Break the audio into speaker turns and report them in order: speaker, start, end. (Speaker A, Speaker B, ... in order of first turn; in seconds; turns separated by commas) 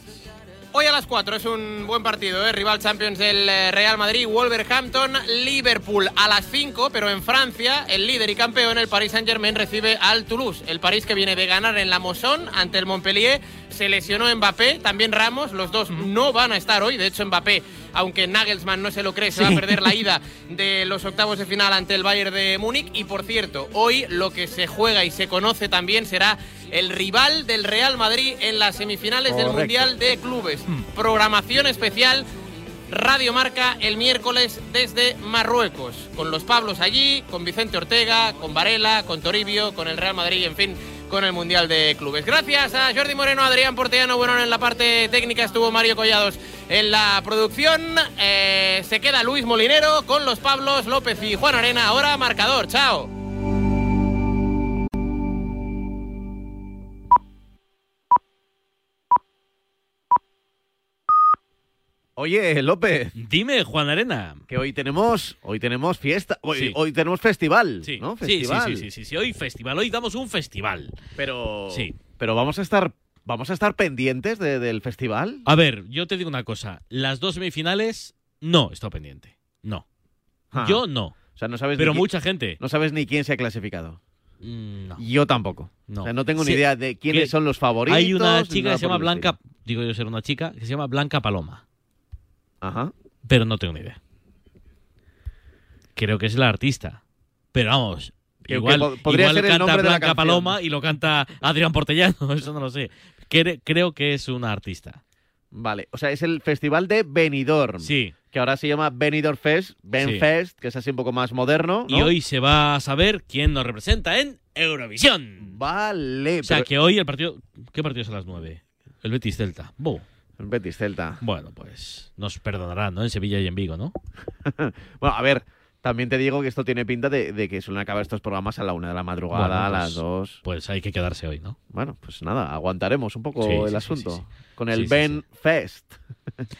Speaker A: 0.7-32.3, Speaker B: 29.4-29.7, Speaker A: 32.9-53.1, Speaker B: 62.2-63.1, Speaker C: 63.1-64.4, Speaker B: 64.5-68.9, Speaker C: 67.8-71.0, Speaker B: 71.2-75.4, Speaker C: 71.7-72.0, Speaker C: 75.4-79.8, Speaker B: 80.5-84.0, Speaker C: 80.5-81.2, Speaker C: 81.7-82.6, Speaker C: 84.4-85.0, Speaker B: 85.0-89.3, Speaker C: 85.8-91.6, Speaker B: 92.6-92.9, Speaker C: 93.2-94.0, Speaker C: 96.0-97.0, Speaker C: 97.5-105.0, Speaker B: 98.5-100.5, Speaker B: 105.5-112.1, Speaker C: 107.8-108.2, Speaker C: 110.0-110.3, Speaker C: 111.9-115.6, Speaker B: 115.4-116.7, Speaker C: 116.4-120.0, Speaker B: 120.4-121.2, Speaker C: 121.2-123.9, Speaker B: 124.5-130.4, Speaker C: 129.3-131.6, Speaker B: 131.7-136.4, Speaker C: 133.4-135.2